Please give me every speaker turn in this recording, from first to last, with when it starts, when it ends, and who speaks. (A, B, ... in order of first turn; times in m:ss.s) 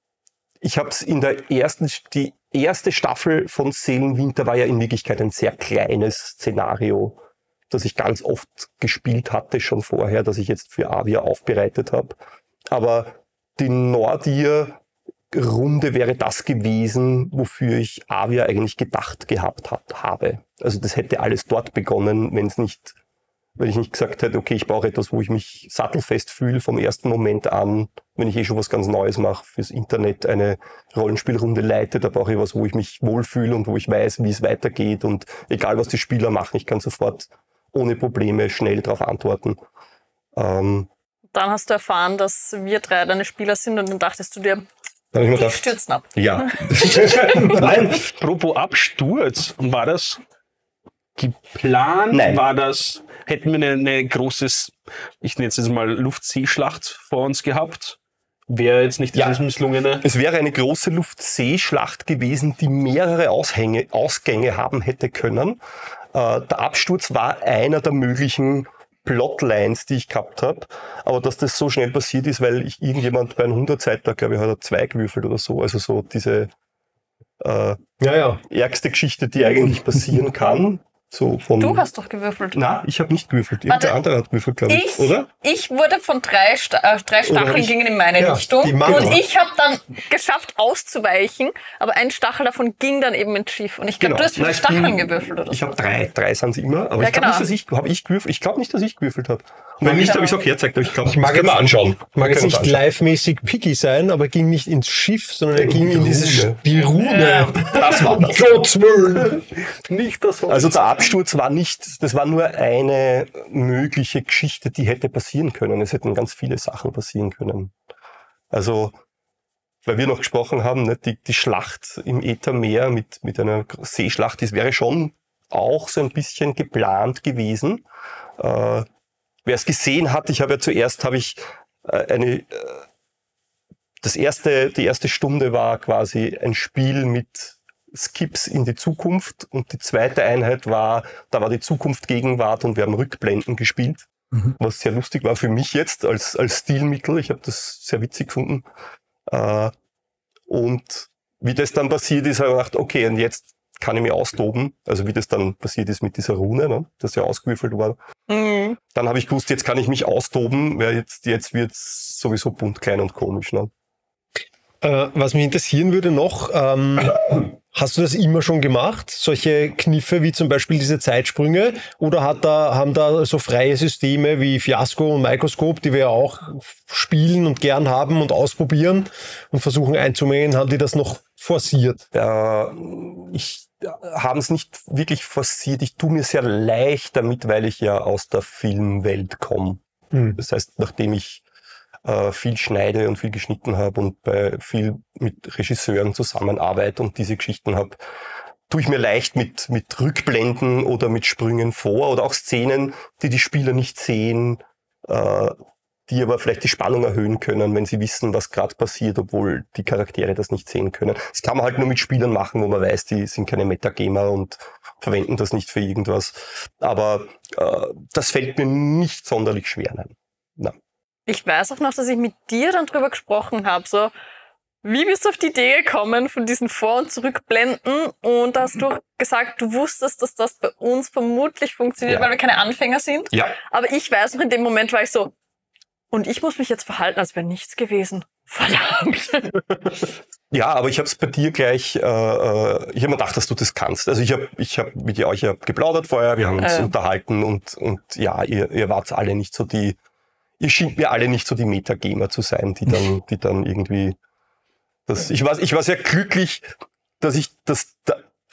0:00.6-0:07.2 A
0:07.7-0:14.8 A
0:15.3-0:23.0 A
0:23.6-0:39.6 A
0:40.4-0:40.9 A
0:41.3-0:44.6 B
0:45.1-0:48.0 A
0:45.3-0:47.6 B
0:47.4-0:50.2 C
0:51.2-0:58.0 C
0:52.1-0:52.4 A
0:58.5-1:00.0 C
1:00.0-1:05.6 A
1:06.1-1:16.5 A
1:17.4-1:17.8 A
1:18.0-1:18.4 D
1:18.4-1:21.8 A
1:21.6-1:22.6 B
1:22.5-1:25.3 A
1:23.7-1:24.0 B
1:24.7-1:35.7 B
1:27.3-1:29.2 D
1:28.8-1:29.2 A
1:34.0-1:42.8 A
1:37.0-1:37.5 B
1:39.8-1:40.1 D
1:39.8-1:40.4 B
1:41.0-1:49.4 D
1:45.5-1:46.6 A
1:47.0-1:47.6 B
1:47.7-1:48.4 A
1:49.8-1:50.8 C
1:50.5-1:57.7 A
1:58.5-1:59.0 A
1:59.8-2:07.8 A
2:08.4-2:08.9 A
2:09.4-2:12.8 A
2:14.0-2:28.6 A
2:29.3-2:29.7 A
2:30.5-2:38.0 A
2:38.3-2:38.8 B
2:38.9-2:43.7 A
2:44.8-3:02.0 D
3:02.1-3:09.8 A
3:10.1-3:10.4 D
3:10.4-3:11.4 A
3:12.0-3:18.0 A
3:18.7-3:25.6 A
3:26.1-3:40.7 A
3:41.3-3:44.1 B
3:44.8-3:55.3 B
3:52.0-3:52.3 A
3:56.1-3:59.6 B
4:00.5-4:10.0 A
4:06.6-4:06.9 B
4:10.6-4:14.2 A
4:15.1-4:16.7 A
4:17.2-4:18.2 A